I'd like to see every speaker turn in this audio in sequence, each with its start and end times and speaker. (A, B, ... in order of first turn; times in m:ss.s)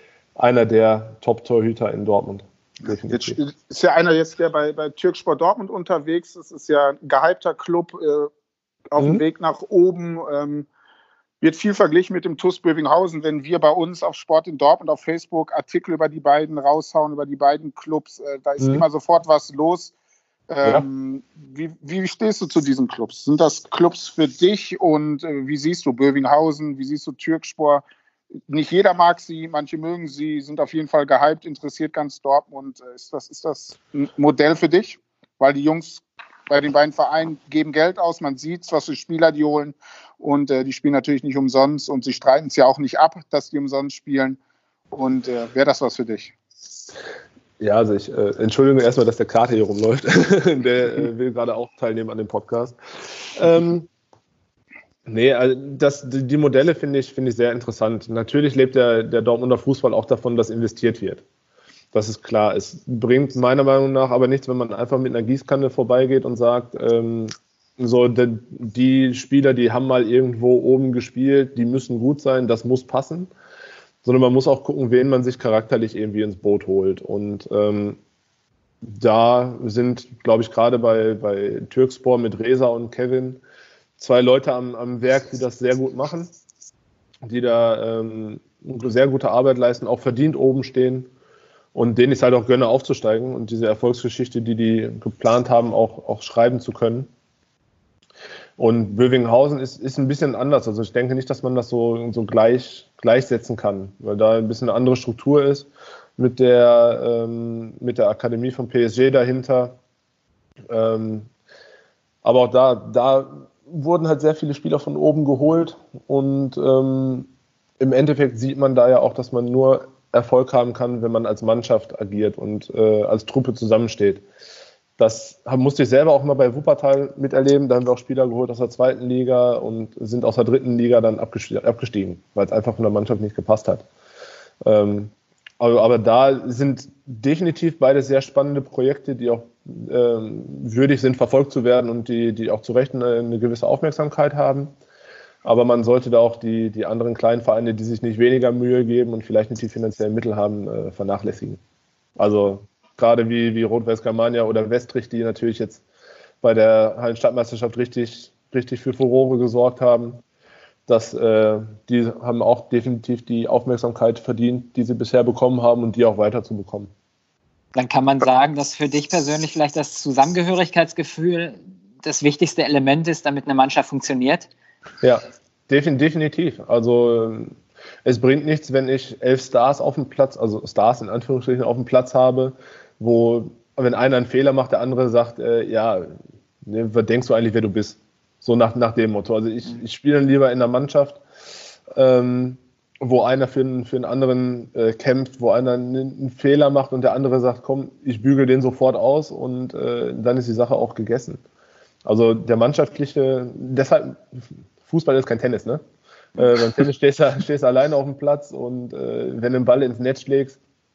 0:00.4-0:03.4 A
0:03.1-0:08.3 B
0:08.9-0:10.7 B
0:09.0-0:09.2 A
0:11.4-0:19.9 B
0:18.6-0:18.8 A
0:20.5-0:27.8 B
0:28.5-0:44.4 B
0:44.9-0:46.3 B
0:47.6-0:52.8 A
0:53.4-0:53.9 A
0:55.1-1:01.2 A
1:01.9-1:13.3 A
1:14.0-1:18.0 A
1:18.9-1:23.4 A
1:24.0-1:26.3 A
1:27.2-1:31.1 A
1:31.8-1:37.1 A
1:38.6-1:49.8 A
1:50.7-1:51.3 A
1:52.2-1:57.3 A
1:57.8-2:04.2 A
2:05.0-2:13.8 A
2:14.6-2:24.7 A
2:25.4-2:31.6 A
2:32.2-2:35.8 A
2:36.4-2:40.2 A
2:40.9-2:46.9 A
2:47.8-2:54.5 C
2:55.0-3:11.2 A
3:11.9-3:21.4 A
3:22.0-3:24.2 A
3:24.8-3:25.8 A
3:26.4-3:30.6 A